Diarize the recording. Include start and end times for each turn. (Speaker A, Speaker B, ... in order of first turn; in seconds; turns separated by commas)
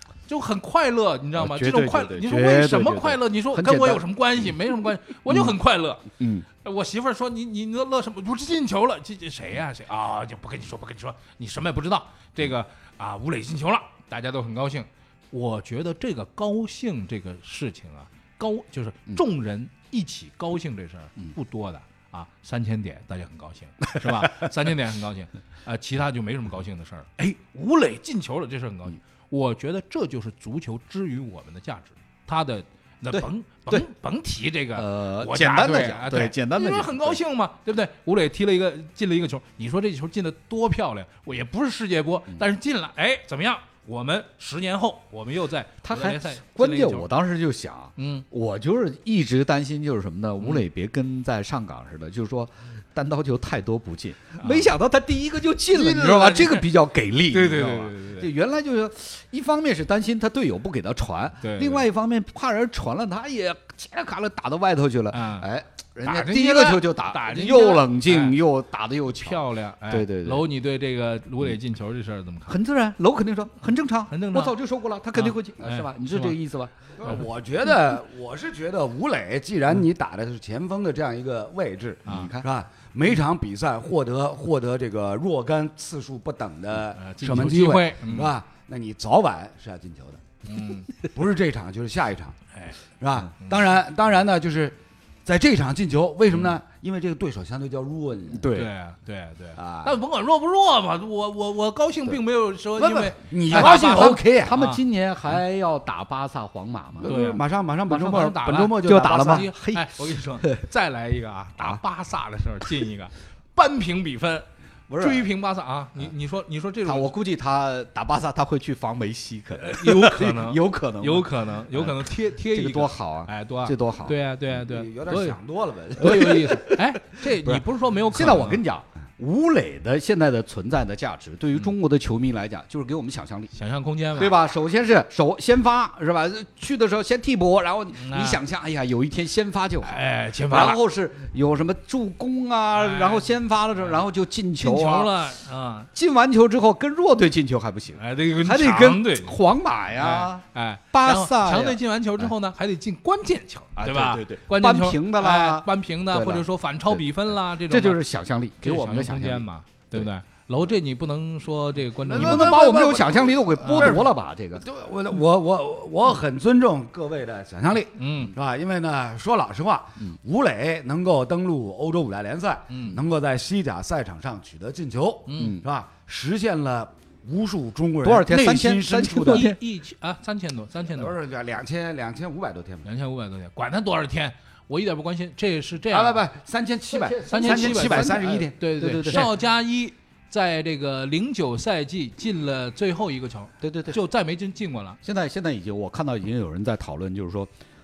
Speaker A: 0.3-6.0, Speaker B: 1.4-4.0, Speaker B: 5.3-5.5, Speaker B: 6.2-6.5, Speaker A: 6.6-47.1, Speaker B: 24.1-24.4, Speaker B: 33.1-33.9, Speaker B: 34.7-37.2, Speaker B: 45.8-70.5, Speaker A: 48.0-48.2, Speaker A: 54.4-54.7, Speaker A: 55.7-56.7, Speaker A: 57.3-58.3, Speaker A: 61.4-61.9, Speaker A: 65.1-65.5, Speaker A: 66.0-68.4, Speaker A: 69.1-72.6, Speaker B: 72.5-76.7, Speaker A: 74.1-74.5, Speaker A: 75.1-76.3, Speaker C: 77.0-90.2, Speaker A: 82.0-82.3, Speaker B: 82.0-82.5, Speaker A: 87.0-88.3, Speaker A: 90.5-90.9, Speaker C: 91.0-92.4, Speaker C: 93.0-98.5, Speaker B: 98.3-98.7, Speaker A: 98.5-104.8, Speaker C: 99.5-99.9, Speaker C: 102.8-104.5, Speaker B: 103.5-107.1, Speaker C: 107.0-109.5, Speaker A: 107.1-117.1, Speaker B: 108.8-110.6, Speaker B: 114.9-115.3, Speaker B: 116.8-124.2, Speaker A: 119.6-125.4, Speaker C: 124.5-126.6, Speaker A: 126.0-128.6, Speaker B: 126.0-133.5, Speaker A: 133.5-134.4, Speaker B: 134.2-145.1, Speaker A: 138.0-138.4, Speaker A: 139.8-140.8, Speaker A: 142.7-144.0, Speaker A: 144.6-145.9, Speaker B: 145.9-152.3, Speaker A: 147.9-149.4, Speaker A: 149.9-158.0, Speaker B: 153.8-157.0, Speaker B: 157.7-160.1, Speaker A: 158.6-162.9, Speaker C: 162.1-179.5, Speaker B: 162.1-164.6, Speaker A: 163.6-164.0, Speaker A: 167.9-168.3, Speaker A: 172.7-173.0, Speaker A: 175.3-175.6, Speaker B: 175.3-175.7, Speaker B: 178.0-179.6, Speaker A: 179.2-181.2, Speaker C: 180.9-182.9, Speaker A: 182.8-186.2, Speaker C: 185.9-189.3, Speaker B: 186.9-189.3, Speaker A: 187.3-195.0, Speaker B: 193.6-194.0, Speaker B: 195.0-197.5